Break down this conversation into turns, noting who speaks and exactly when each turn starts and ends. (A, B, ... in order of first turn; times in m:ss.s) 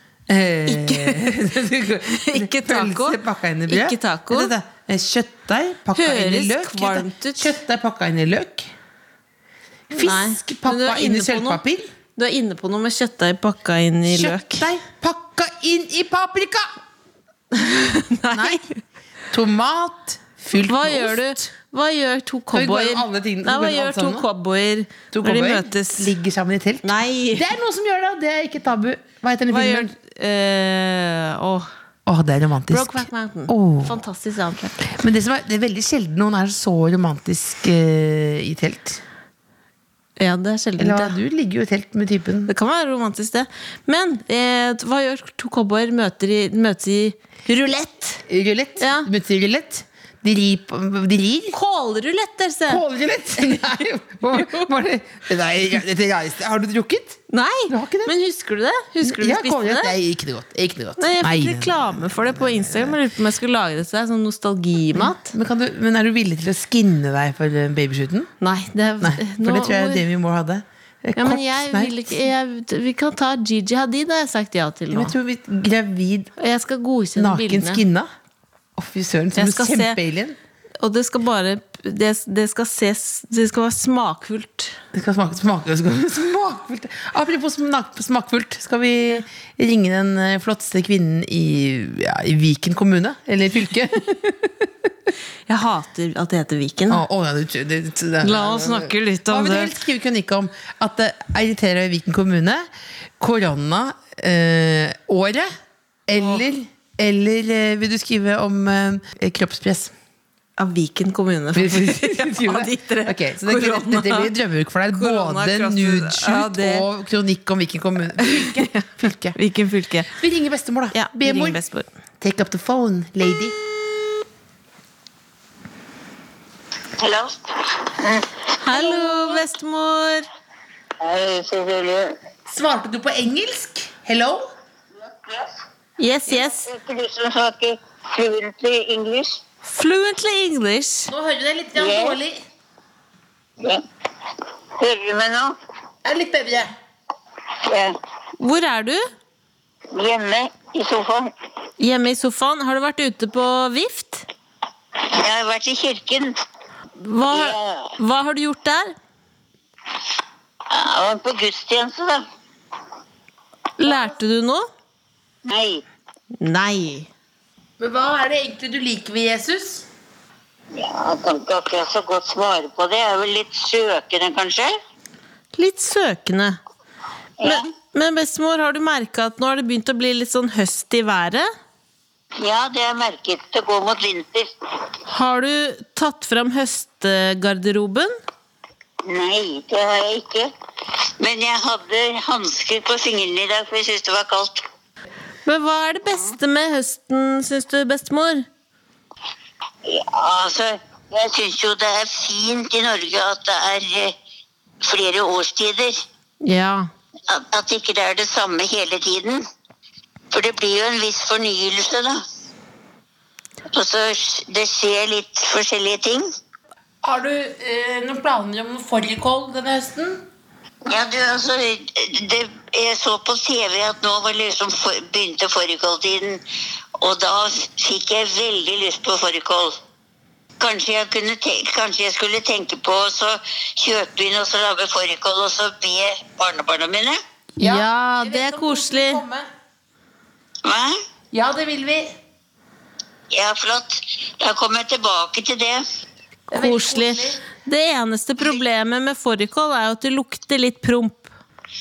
0:00.3-0:08.7 A
0:00.7-0:01.3 B
0:02.1-0:04.5 B
0:05.9-0:07.6 B
0:09.9-0:11.9 A
0:10.0-0:11.6 B
0:12.2-0:14.7 B
0:14.0-0:16.8 A
0:17.5-0:18.8 B
0:18.3-0:18.7 A
0:19.3-0:21.4 A
0:20.5-0:26.1 B
0:22.5-0:24.2 A
0:25.1-0:29.9 A
0:26.8-0:27.5 B
0:29.5-0:31.7 B
0:32.0-0:34.0 A
0:32.7-0:34.9 B
0:34.8-0:39.0 A
0:40.2-0:41.2 B
0:40.8-0:42.5 A
0:42.5-0:48.2 B
0:48.3-0:51.6 A
0:48.8-0:49.1 B
0:51.5-0:52.8 B
0:52.7-0:58.1 A
0:53.4-0:53.7 B
0:54.3-0:54.7 B
0:57.3-0:59.9 B
0:59.0-1:03.0 A
1:01.0-1:05.3 B
1:04.9-1:08.3 A
1:08.4-1:10.0 B
1:09.0-1:12.1 A
1:11.2-1:15.1 B
1:14.9-1:16.3 A
1:16.4-1:17.8 B
1:17.2-1:18.1 A
1:18.8-1:20.4 A
1:19.4-1:20.0 B
1:20.8-1:24.8 B
1:24.9-1:34.7 A
1:35.5-1:37.0 B
1:36.9-1:42.6 A
1:38.2-1:39.7 B
1:43.2-1:45.5 A
1:46.1-1:49.9 A
1:50.6-1:54.3 B
1:51.5-1:59.4 A
1:54.9-1:56.8 B
1:58.2-2:00.1 B
2:00.2-2:01.6 A
2:00.9-2:01.9 B
2:02.2-2:03.6 A
2:07.0-2:09.4 C
2:08.6-2:10.3 B
2:11.0-2:12.2 C
2:12.5-2:14.5 A
2:16.0-2:16.7 B
2:16.3-2:19.4 C
2:19.6-2:21.1 B
2:21.1-2:22.4 A
2:21.8-2:22.2 C
2:24.8-2:25.6 C
2:26.0-2:26.7 A
2:27.5-2:28.0 C
2:28.4-2:29.0 B
2:29.9-2:31.3 C
2:31.8-2:34.2 B
2:35.0-2:36.4 C
2:37.0-2:38.9 B
2:37.3-2:37.9 C
2:40.7-2:42.2 C
2:43.8-2:44.7 B
2:45.4-2:45.8 C
2:46.4-2:47.1 B
2:47.8-2:49.8 A
2:50.7-2:54.7 C
2:55.6-2:56.6 B
2:57.4-2:57.6 C
2:57.4-3:01.5 B
3:02.4-3:04.5 C
3:05.1-3:08.1 B
3:09.0-3:14.6 C
3:15.4-3:18.5 B
3:19.8-3:24.1 C
3:24.8-3:26.0 C
3:26.4-3:26.9 B
3:27.3-3:29.4 C
3:30.3-3:32.2 C
3:33.7-3:36.3 C
3:37.0-3:40.2 A
3:40.9-3:46.4 C
3:47.0-3:49.8 C
3:50.6-3:57.2 C
3:57.6-3:59.5 A
3:57.6-3:59.2 B
4:00.6-4:01.0 C
4:01.3-4:02.2 A
4:03.3-4:05.8 C
4:06.5-4:11.3 B
4:06.5-4:07.4 A